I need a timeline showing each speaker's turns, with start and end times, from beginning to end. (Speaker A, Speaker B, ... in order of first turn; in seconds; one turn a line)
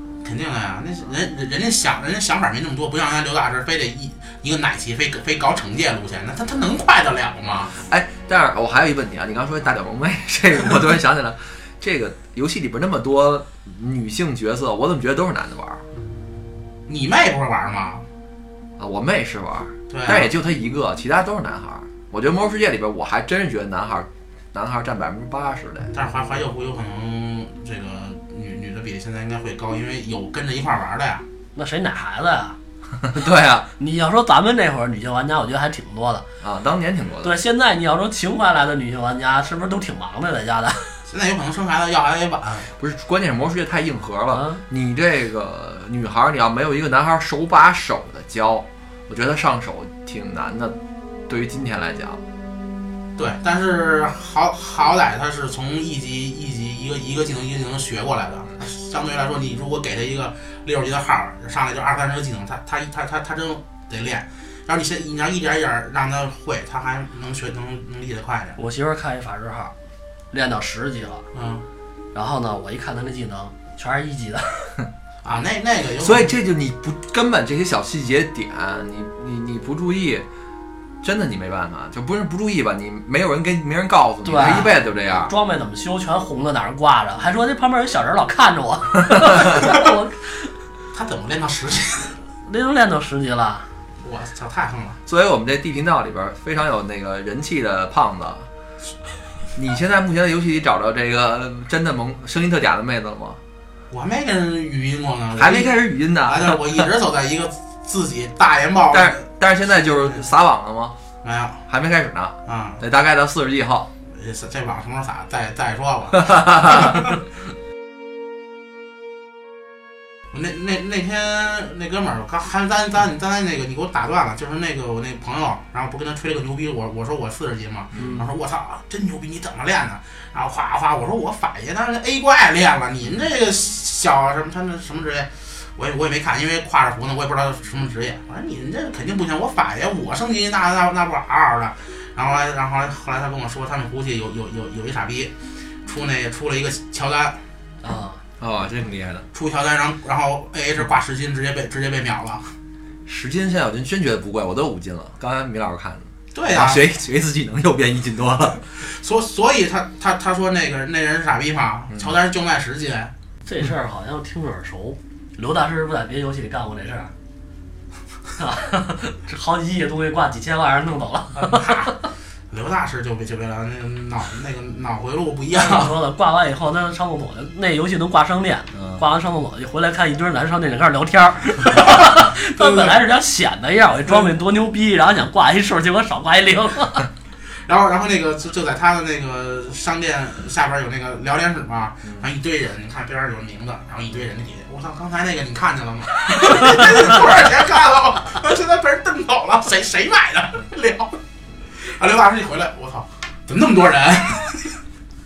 Speaker A: 0.2-7.7
Speaker B: 7.7-15.8
Speaker A: 16.9-18.1
Speaker B: 18.8-25.9
Speaker A: 19.9-20.3
Speaker A: 25.9-31.2
Speaker C: 31.6-32.6
Speaker B: 33.1-33.7
Speaker C: 33.8-36.2
Speaker B: 36.4-37.4
Speaker C: 37.2-41.0
Speaker A: 41.1-42.7
Speaker B: 42.8-50.8
Speaker C: 44.3-44.6
Speaker B: 51.3-52.2
Speaker A: 53.2-68.6
Speaker C: 68.6-69.7
Speaker C: 70.3-71.2
Speaker A: 71.3-71.6
Speaker C: 72.1-74.8
Speaker A: 75.2-76.3
Speaker B: 76.0-80.3
Speaker B: 81.0-85.3
Speaker C: 84.2-84.7
Speaker C: 85.2-90.5
Speaker A: 90.9-92.2
Speaker C: 92.5-93.7
Speaker A: 94.0-95.0
Speaker B: 95.1-98.5
Speaker B: 99.5-103.4
Speaker A: 103.9-110.3
Speaker B: 105.4-106.9
Speaker B: 108.9-111.0
Speaker A: 111.2-111.6
Speaker B: 111.7-113.9
Speaker A: 112.5-112.8
Speaker A: 114.1-117.2
Speaker B: 116.4-116.8
Speaker A: 120.3-145.3
Speaker C: 128.0-128.3
Speaker A: 145.8-147.4
Speaker C: 147.8-148.2
Speaker B: 148.4-149.3
Speaker A: 149.3-152.5
Speaker B: 153.1-158.6
Speaker A: 156.3-156.8
Speaker A: 158.8-163.1
Speaker C: 163.5-167.1
Speaker C: 168.4-171.9
Speaker A: 171.4-171.9
Speaker A: 172.5-175.9
Speaker C: 175.5-187.1
Speaker B: 178.7-179.0
Speaker A: 181.9-183.0
Speaker A: 187.7-201.2
Speaker A: 201.8-204.8